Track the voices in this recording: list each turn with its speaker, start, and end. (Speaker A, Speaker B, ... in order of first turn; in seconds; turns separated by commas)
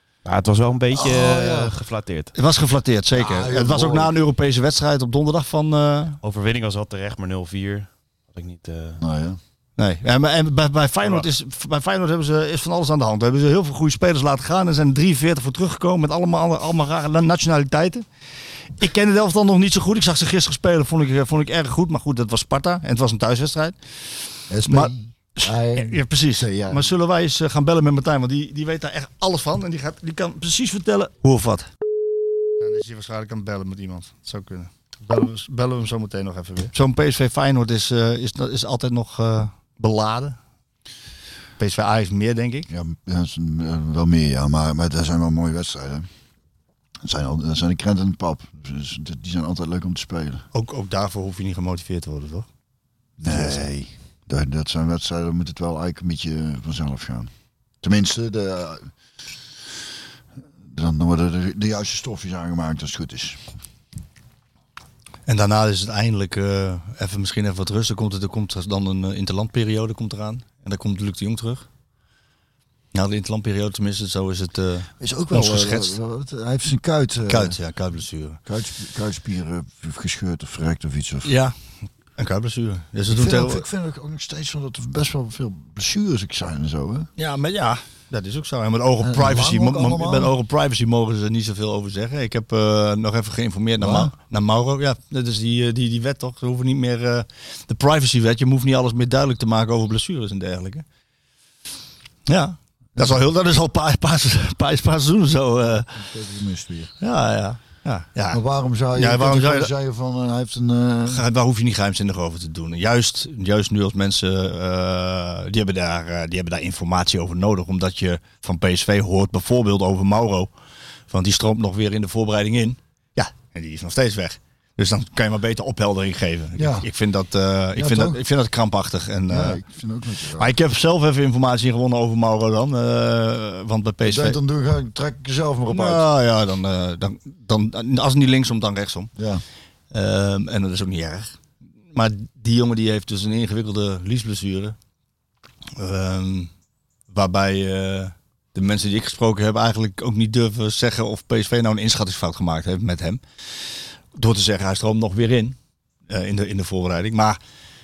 Speaker A: 0.2-2.3, Speaker B: 0.9-1.7, Speaker C: 2.3-6.2, Speaker B: 3.1-4.2, Speaker A: 6.2-9.0, Speaker B: 9.0-9.4, Speaker C: 9.8-18.0, Speaker C: 18.8-23.8, Speaker B: 24.5-26.9, Speaker C: 24.6-31.7, Speaker C: 32.6-40.4, Speaker C: 41.6-42.7, Speaker B: 42.7-46.1, Speaker B: 47.0-50.4, Speaker C: 50.5-52.5, Speaker B: 53.2-57.3, Speaker C: 53.3-53.6, Speaker B: 57.8-58.9, Speaker B: 60.7-63.4, Speaker C: 65.2-71.7, Speaker C: 72.9-76.0, Speaker B: 75.0-77.6, Speaker C: 77.3-78.4, Speaker B: 78.5-81.3, Speaker C: 81.2-81.5, Speaker C: 82.2-83.6, Speaker B: 83.1-87.1, Speaker C: 87.2-100.8, Speaker B: 89.0-90.3, Speaker B: 93.8-94.1, Speaker C: 102.3-105.9, Speaker B: 105.9-106.9, Speaker C: 107.0-108.4, Speaker B: 108.3-111.2, Speaker C: 108.9-109.7, Speaker C: 111.1-120.5, Speaker C: 121.1-129.6, Speaker B: 126.5-126.9, Speaker B: 127.8-128.2, Speaker B: 129.3-130.5, Speaker C: 130.4-134.4, Speaker B: 134.0-136.0, Speaker C: 135.7-139.1, Speaker B: 139.2-139.4, Speaker C: 139.9-141.4, Speaker C: 141.9-144.8, Speaker C: 145.8-146.5, Speaker C: 147.1-153.2, Speaker C: 154.1-155.6, Speaker C: 156.1-157.4